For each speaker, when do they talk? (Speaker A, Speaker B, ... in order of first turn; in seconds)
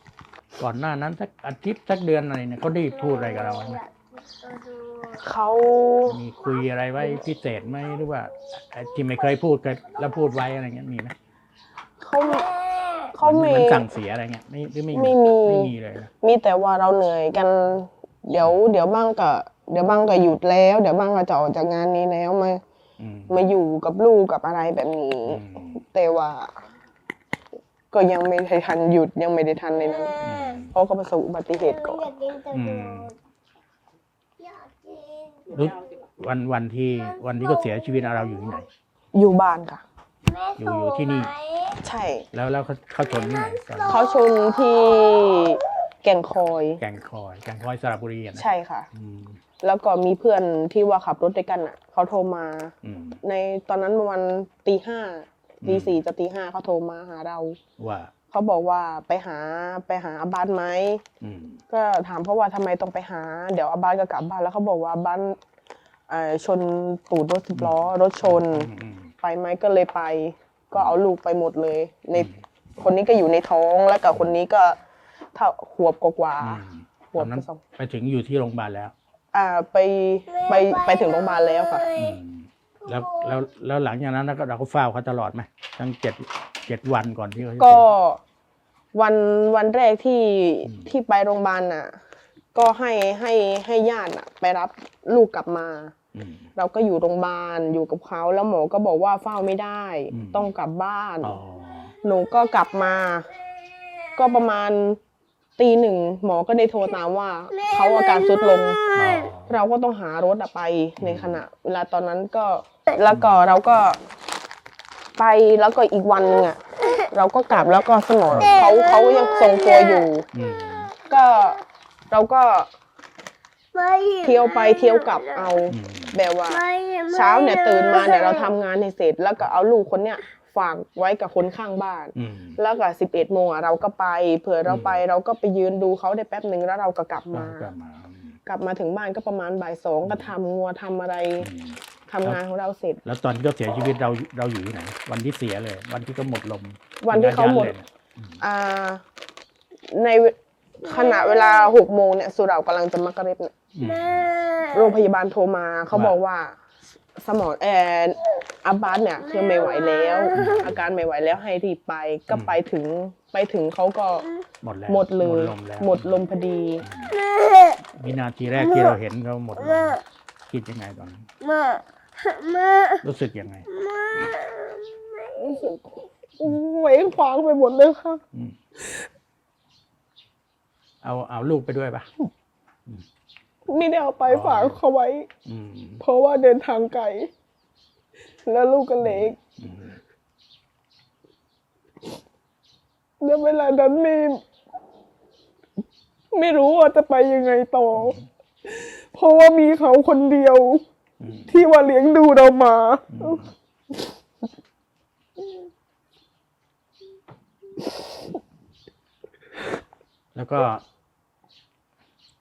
Speaker A: 0.6-3.8, 6.0-11.1, 13.2-16.1, 23.0-23.4, 25.3-25.8, 30.2-30.7, 32.5-33.1, 35.5-38.7, 40.5-41.3, 42.3-44.0, 46.8-49.4, 52.8-53.2, 55.6-56.0, 57.8-58.1, 61.2-61.6, 67.5-69.1, 72.1-72.4, 76.4-78.9, 81.9-87.9, 96.1-96.5, 100.1-100.5, 101.2-101.9, 108.9-109.5, 111.0-111.4, 118.3-118.6, 120.3-120.9, 125.7-126.2, 132.1-132.6, 134.7-135.0, 137.3-138.4, 140.0-140.3, 141.4-142.4, 143.0-148.4, 153.7-154.4, 155.9-156.2, 160.3-160.8, 162.3-162.6, 164.6-166.2, 166.8-167.2, 167.9-171.3, 173.0-173.7, 181.0-182.1, 184.3-184.8, 185.4-186.0, 189.0-190.0, 198.0-198.2, 201.2-201.5, 203.1-203.5, 210.3-210.8
Speaker B: 3.3-5.2, 12.6-13.0, 31.8-33.0, 34.4-35.5, 40.2-41.7, 80.4-82.1, 107.6-109.0, 118.5-120.0, 123.7-125.3, 126.5-128.3, 150.9-151.6, 153.8-154.9, 159.4-160.6, 167.1-167.8, 171.4-173.0, 173.7-175.3
Speaker C: 5.1-6.2, 12.0-13.8, 14.9-22.6, 23.3-26.6, 27.9-30.2, 30.7-32.1, 39.1-39.8, 41.8-42.3, 43.9-46.8, 48.4-48.9, 49.6-57.6, 58.3-61.0, 61.7-65.4, 66.1-68.7, 69.2-74.8, 75.3-77.6, 79.3-81.9, 87.6-88.2, 88.9-92.0, 92.5-95.9, 96.5-101.3, 102.0-103.3, 104.1-105.0, 105.6-108.9, 109.5-114.0, 115.2-120.2, 121.0-122.7, 124.2-137.7, 138.4-141.5, 142.1-143.0, 147.0-147.8, 148.4-149.0, 149.9-153.5, 154.7-156.6, 157.2-164.3, 164.9-166.8, 175.3-178.2, 183.7-185.3, 186.0-187.3, 188.4-189.4, 193.2-194.4, 196.3-200.8, 201.5-203.4